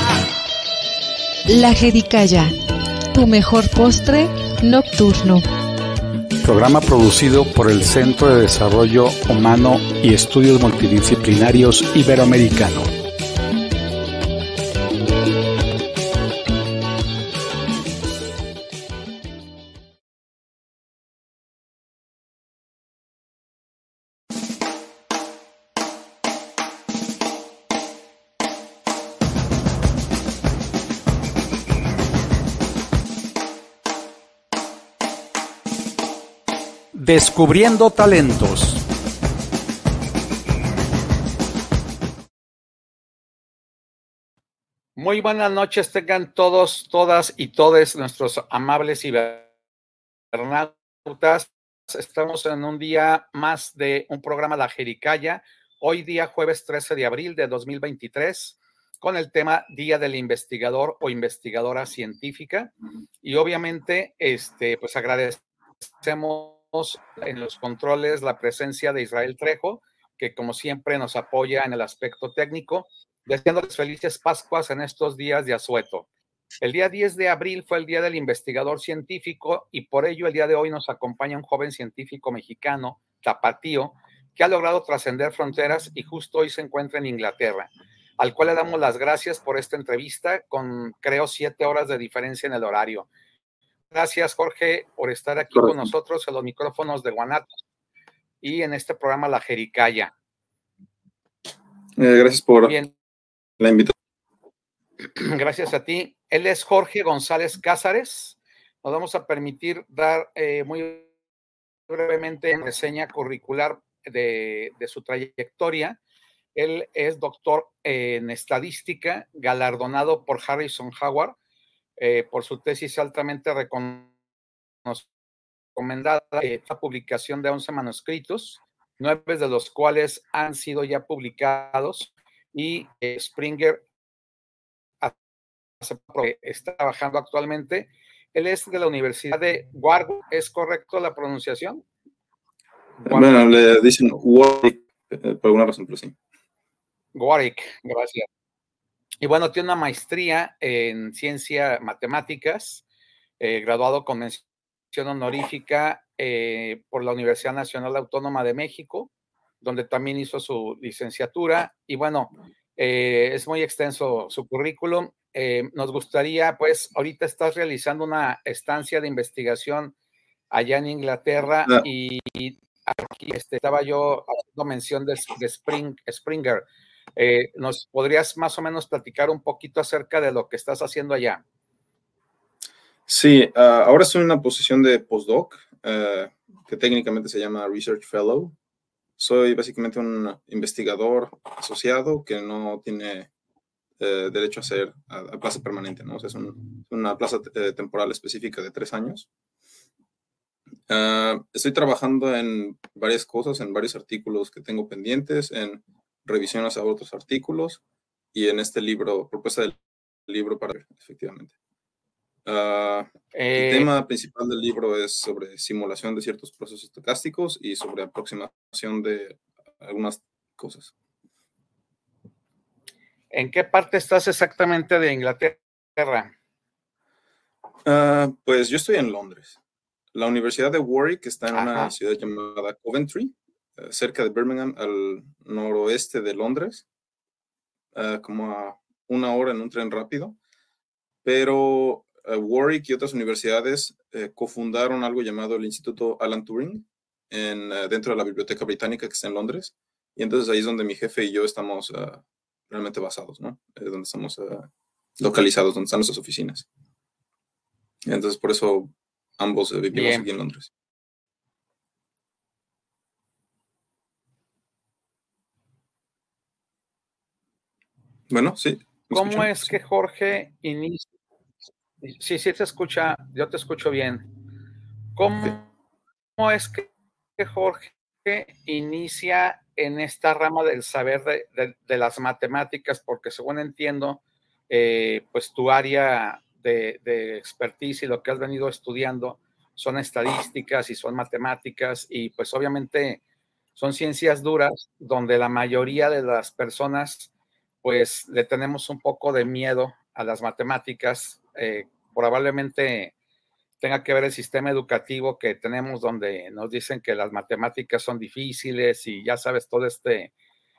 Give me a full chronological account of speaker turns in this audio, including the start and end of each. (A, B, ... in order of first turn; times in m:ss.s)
0:01.5-0:02.5 A
0:03.1-0:05.4 A
0:06.4-0:12.9 B
0:36.9-0:38.8 B
0:45.0-0:49.5 B
0:50.3-1:02.7 B
1:03.2-1:05.4 B
1:06.0-1:16.0 B
1:16.6-1:33.1 B
1:33.9-1:37.5 B
1:35.5-1:35.9 C
1:38.4-1:40.1 B
1:42.0-1:42.8 C
1:42.6-1:42.9 B
1:43.6-1:43.9 C
1:45.2-1:51.1 B
1:51.9-1:56.0 B
1:56.5-2:01.4 B
2:02.0-2:04.1 B
2:05.7-2:13.8 B
2:15.8-2:21.8 B
2:23.0-2:26.2 C
2:23.0-2:23.4 B
2:27.1-2:28.2 B
2:29.2-2:32.8 B
2:33.4-2:39.1 B
2:39.6-2:49.9 B
2:50.5-2:56.6 B
2:57.2-3:01.4 B
3:03.1-3:08.6 C
3:09.2-3:13.3 C
3:14.0-3:19.3 C
3:20.9-3:27.8 C
3:28.3-3:31.5 C
3:32.4-3:40.9 C
3:33.3-3:33.9 B
3:43.3-3:46.3 B
3:47.8-3:49.6 C
3:50.1-3:56.8 C
3:51.5-3:51.9 B
3:57.9-4:00.4 C
4:01.2-4:14.7 C
4:15.2-4:16.7 C
4:18.0-4:20.7 C
4:19.9-4:20.3 B
4:28.3-4:29.8 C
4:29.1-4:31.1 B
4:32.0-4:34.2 B
4:35.1-4:35.6 B
4:36.4-4:53.2 B
4:53.8-4:57.3 B
4:57.8-5:03.1 B
5:03.8-5:10.3 B